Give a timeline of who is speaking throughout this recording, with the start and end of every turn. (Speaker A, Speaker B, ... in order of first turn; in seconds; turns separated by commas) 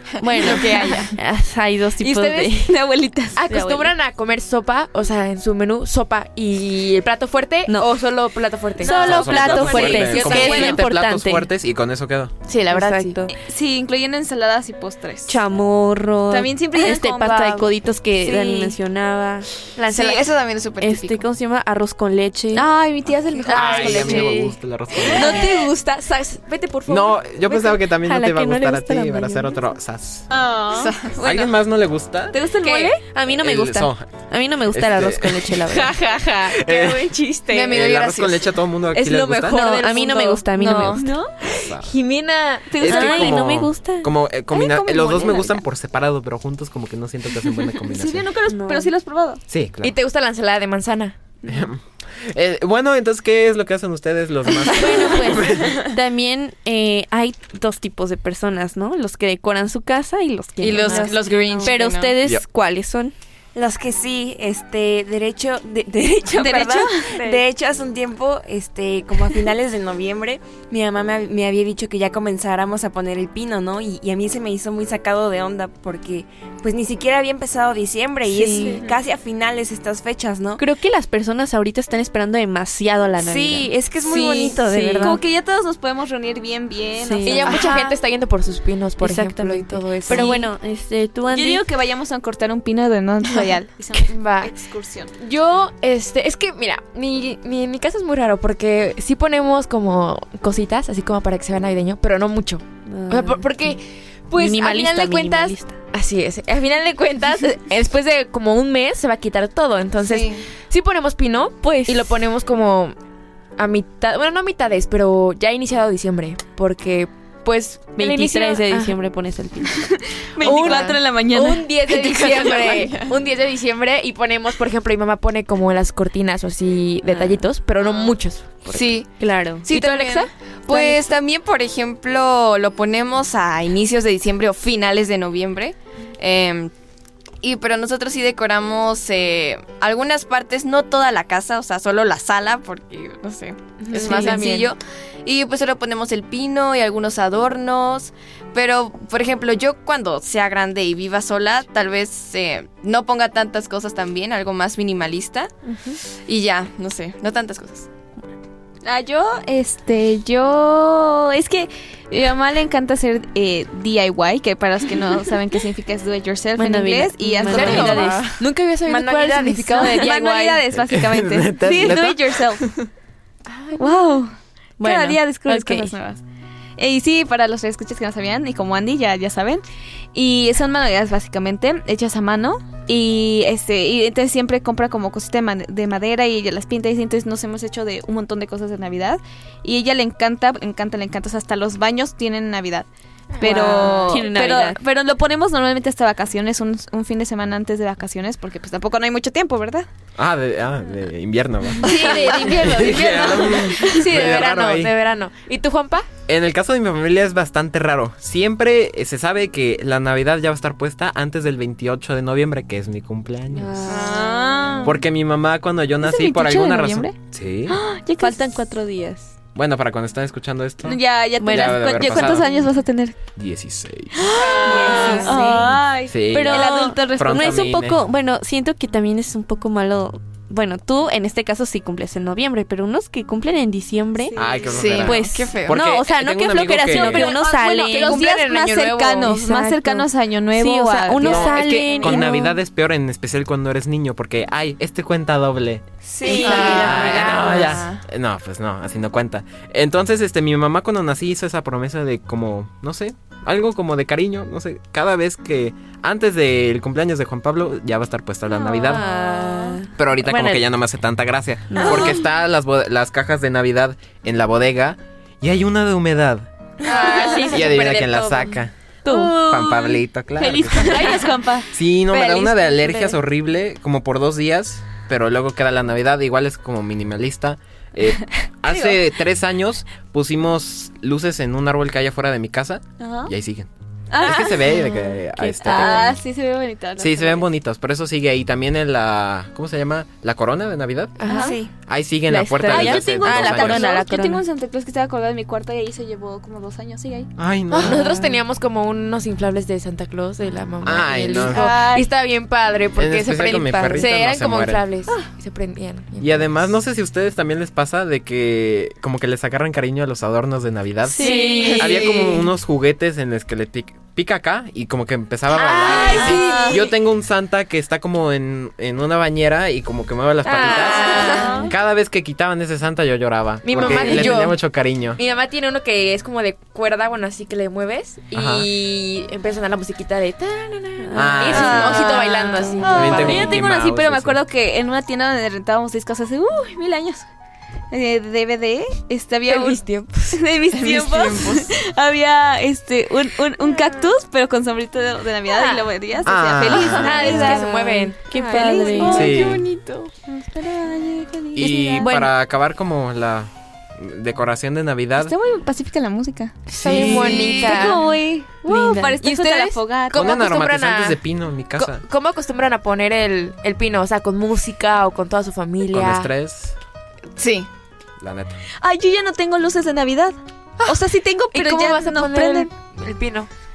Speaker A: 0.2-2.7, Speaker B: 0.4-1.1, Speaker C: 0.4-1.1, Speaker D: 2.0-3.4, Speaker C: 3.4-10.8, Speaker A: 3.5-3.9, Speaker D: 8.8-10.8, Speaker A: 8.8-11.5, Speaker E: 8.8-12.3, Speaker C: 12.5-13.2, Speaker A: 12.7-13.3, Speaker D: 13.3-15.4, Speaker A: 15.3-19.8, Speaker D: 16.3-17.5, Speaker B: 16.8-17.7, Speaker B: 18.2-18.7, Speaker C: 19.8-20.2, Speaker B: 19.9-21.3, Speaker A: 20.8-22.7, Speaker D: 22.5-24.5, Speaker C: 23.5-24.5, Speaker E: 23.5-25.5, Speaker C: 25.1-27.7, Speaker D: 25.1-25.6, Speaker E: 26.9-30.3, Speaker A: 27.9-29.6, Speaker D: 30.3-31.2, Speaker B: 30.7-31.5, Speaker E: 31.2-32.5, Speaker D: 32.3-33.0, Speaker C: 32.6-33.0, Speaker A: 33.1-35.9, Speaker E: 33.3-34.1, Speaker E: 34.7-35.6, Speaker C: 35.7-37.7, Speaker E: 36.5-39.6, Speaker B: 37.5-38.5, Speaker D: 39.0-41.3, Speaker A: 39.5-41.1, Speaker C: 39.6-40.1, Speaker C: 41.5-43.0, Speaker E: 41.5-41.9, Speaker D: 42.7-43.4, Speaker E: 42.7-48.3, Speaker A: 42.8-44.1, Speaker C: 44.6-45.5, Speaker D: 47.9-49.4, Speaker A: 48.5-48.9, Speaker E: 49.5-50.0, Speaker C: 49.8-51.2, Speaker E: 51.5-55.8, Speaker A: 54.7-63.1, Speaker C: 54.7-55.5, Speaker B: 60.6-62.1, Speaker C: 60.8-61.3, Speaker F: 63.5-80.6, Speaker D: 66.3-67.3, Speaker A: 78.3-78.8, Speaker A: 80.6-83.7, Speaker F: 83.2-85.2, Speaker D: 84.0-87.9, Speaker A: 84.6-85.2, Speaker A: 87.0-87.7, Speaker C: 87.2-90.4, Speaker B: 87.6-87.9, Speaker A: 89.0-91.6, Speaker D: 90.1-90.4, Speaker D: 91.3-95.1, Speaker C: 94.0-94.5, Speaker C: 95.2-113.0, Speaker A: 102.9-103.7, Speaker A: 104.3-105.8, Speaker B: 110.0-110.5, Speaker A: 111.6-112.1, Speaker C: 113.6-119.0, Speaker A: 118.0-120.9, Speaker D: 120.3-122.9, Speaker C: 120.4-129.0, Speaker B: 120.5-120.8, Speaker B: 122.7-123.1, Speaker A: 127.1-127.4, Speaker B: 128.7-129.1, Speaker A: 129.2-129.6, Speaker B: 129.6-136.7, Speaker C: 129.7-131.0, Speaker B: 137.4-155.5, Speaker C: 143.8-144.7, Speaker B: 156.3-157.9, Speaker D: 158.8-168.2, Speaker A: 166.6-168.2, Speaker C: 167.5-170.6, Speaker D: 168.9-172.8, Speaker E: 170.7-172.4, Speaker C: 173.5-174.0, Speaker D: 173.8-176.2, Speaker A: 174.8-175.9, Speaker D: 176.8-199.9, Speaker C: 193.3-194.2, Speaker A: 193.4-194.8, Speaker E: 200.2-204.9, Speaker D: 201.8-204.1, Speaker C: 201.8-206.1, Speaker E: 206.3-213.9, Speaker A: 213.5-214.2, Speaker D: 213.9-214.9, Speaker E: 214.8-217.8, Speaker D: 216.0-217.2, Speaker D: 217.7-218.5, Speaker A: 218.2-219.3, Speaker E: 219.6-222.5, Speaker D: 220.8-223.2, Speaker A: 221.4-222.4, Speaker E: 223.4-224.3, Speaker D: 224.2-227.7, Speaker C: 224.6-225.4, Speaker A: 224.6-225.8, Speaker E: 226.1-228.0, Speaker A: 226.3-234.4, Speaker D: 234.2-234.8, Speaker E: 234.4-237.4, Speaker B: 234.7-235.8, Speaker A: 235.0-238.2, Speaker D: 236.9-242.1, Speaker C: 237.0-239.5, Speaker A: 239.2-242.6, Speaker E: 241.2-259.1, Speaker F: 246.1-247.6, Speaker B: 246.2-248.0, Speaker D: 246.3-246.8, Speaker C: 246.5-246.8, Speaker D: 258.5-259.8, Speaker A: 258.8-260.7, Speaker E: 260.0-266.5, Speaker A: 261.7-262.2, Speaker C: 266.8-268.5, Speaker D: 266.9-267.6, Speaker B: 266.9-267.4, Speaker E: 267.5-268.7, Speaker A: 269.1-269.4, Speaker D: 269.1-273.1, Speaker E: 269.4-271.2, Speaker E: 271.7-283.7, Speaker D: 278.7-279.0, Speaker D: 283.0-283.3, Speaker D: 284.1-284.7, Speaker E: 284.2-286.2, Speaker A: 285.3-286.1, Speaker D: 285.6-287.5, Speaker E: 287.0-291.2, Speaker C: 291.2-291.6, Speaker D: 291.3-291.6, Speaker F: 291.3-291.7, Speaker E: 291.9-293.9, Speaker A: 292.3-294.4, Speaker D: 292.6-297.3, Speaker E: 297.4-298.1, Speaker C: 297.7-306.6, Speaker E: 300.8-301.7, Speaker D: 301.3-302.1, Speaker E: 303.0-304.8, Speaker E: 306.2-325.2, Speaker A: 311.1-312.1, Speaker C: 311.2-312.2, Speaker C: 315.6-316.8, Speaker D: 315.9-316.9, Speaker C: 320.5-321.7, Speaker D: 321.1-321.7, Speaker C: 323.6-324.6, Speaker A: 324.0-324.3, Speaker C: 325.2-333.6, Speaker E: 328.3-328.7, Speaker A: 331.0-331.8, Speaker E: 331.1-332.1, Speaker D: 331.5-337.3, Speaker A: 332.5-332.9, Speaker E: 332.9-334.4, Speaker D: 337.9-352.1, Speaker C: 339.5-340.4, Speaker B: 340.9-341.6, Speaker C: 345.5-345.9, Speaker E: 346.2-347.6, Speaker C: 346.8-349.6, Speaker A: 347.4-349.3, Speaker E: 349.1-349.6, Speaker E: 351.6-355.3, Speaker A: 352.0-352.3, Speaker D: 355.2-360.3, Speaker C: 356.7-358.1, Speaker E: 356.8-357.3, Speaker B: 356.9-357.9, Speaker A: 358.7-359.1, Speaker C: 358.7-361.2, Speaker E: 360.1-362.0, Speaker C: 361.8-366.3, Speaker E: 365.9-366.8, Speaker B: 367.4-367.7, Speaker E: 368.2-368.6, Speaker D: 368.8-372.7, Speaker C: 371.5-373.5